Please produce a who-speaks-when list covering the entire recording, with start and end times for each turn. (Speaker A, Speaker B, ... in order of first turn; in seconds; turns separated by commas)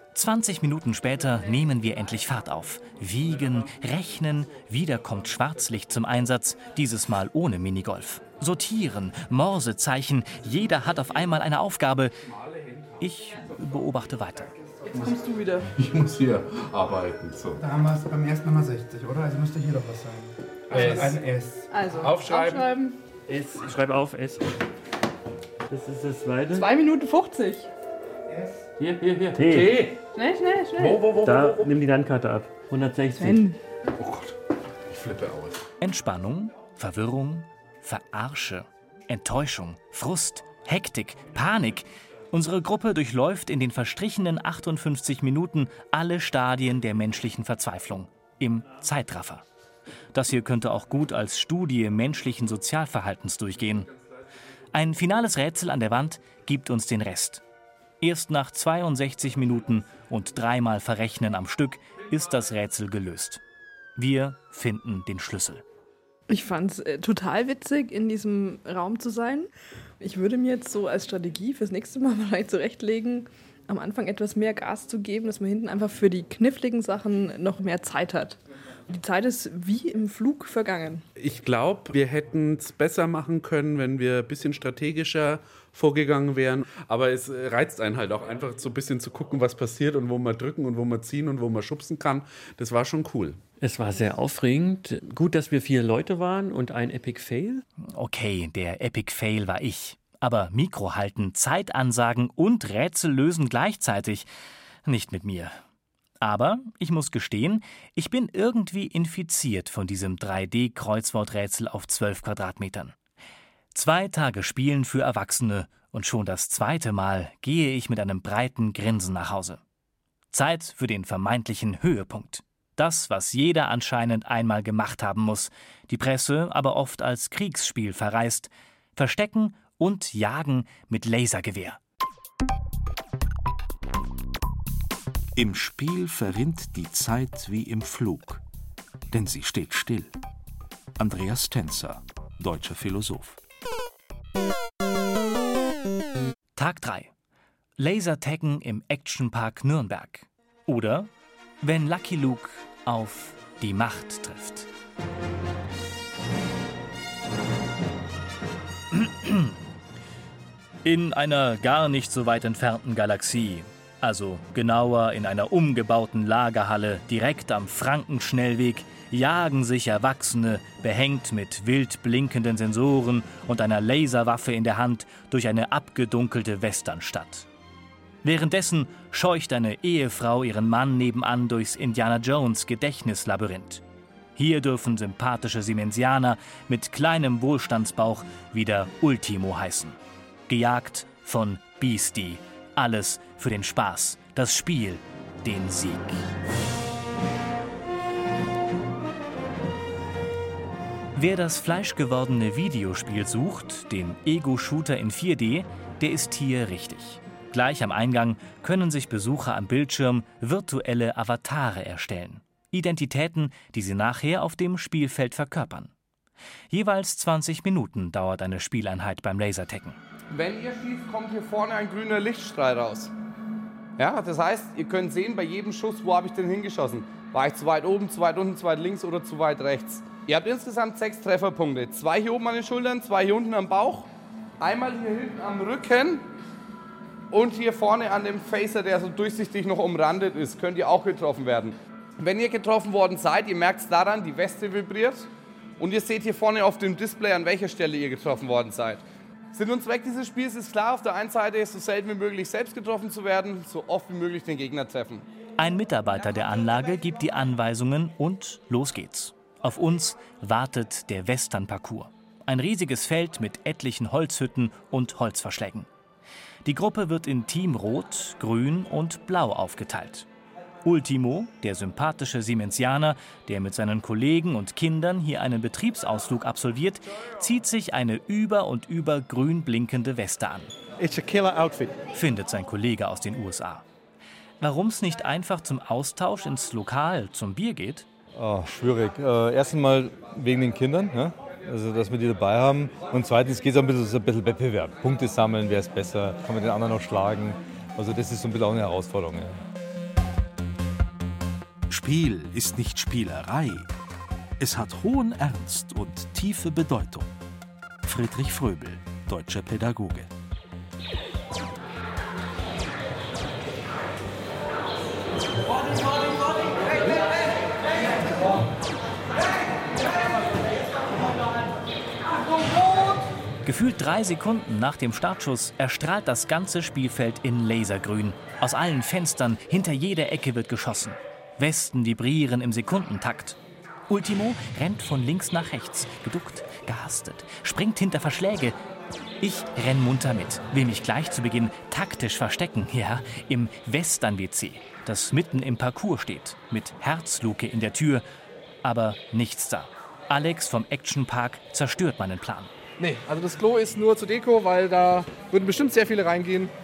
Speaker A: 0.1-12.1, Speaker A: 13.0-14.5, Speaker B: 14.9-15.7, Speaker C: 15.8-17.8, Speaker D: 17.8-20.3, Speaker B: 20.7-23.0, Speaker C: 20.7-21.2, Speaker C: 22.0-22.7, Speaker E: 23.3-24.5, Speaker E: 25.7-26.7, Speaker B: 26.5-27.7, Speaker E: 28.8-29.9, Speaker C: 29.4-29.9, Speaker B: 30.1-31.1, Speaker C: 30.8-31.7, Speaker E: 31.2-33.5, Speaker B: 33.2-33.6, Speaker C: 34.0-34.3, Speaker C: 34.9-35.6, Speaker A: 35.8-49.4, Speaker A: 50.1-53.9, Speaker A: 54.7-57.4, Speaker A: 58.0-63.4, Speaker A: 64.0-65.6, Speaker B: 66.3-69.5, Speaker B: 70.0-81.0, Speaker C: 81.2-93.4, Speaker E: 93.6-97.6, Speaker A: 98.0-104.3, Speaker A: 104.8-105.6, Speaker A: 106.2-113.0, Speaker A: 113.7-119.6, Speaker A: 120.3-131.8, Speaker F: 135.4-138.4, Speaker F: 139.1-140.1, Speaker F: 141.0-143.4, Speaker A: 146.6-147.1, Speaker A: 147.8-151.1, Speaker A: 151.6-154.7, Speaker A: 158.9-159.6, Speaker A: 160.8-177.5, Speaker A: 178.2-183.8, Speaker A: 184.4-196.2, Speaker A: 201.2-215.9, Speaker A: 216.7-220.0, Speaker G: 220.3-223.1, Speaker G: 224.0-234.1, Speaker G: 234.6-236.2, Speaker G: 237.3-245.3, Speaker G: 245.8-255.2, Speaker A: 255.6-265.9, Speaker A: 266.6-270.3, Speaker A: 270.8-280.7, Speaker H: 281.0-281.9, Speaker A: 282.1-283.8, Speaker A: 284.6-288.1, Speaker H: 288.3-299.6, Speaker F: 301.9-303.9, Speaker F: 304.6-307.3, Speaker F: 308.1-310.3, Speaker A: 323.6-333.6, Speaker A: 334.1-338.8, Speaker A: 339.4-348.2, Speaker A: 348.8-352.7, Speaker I: 353.0-356.7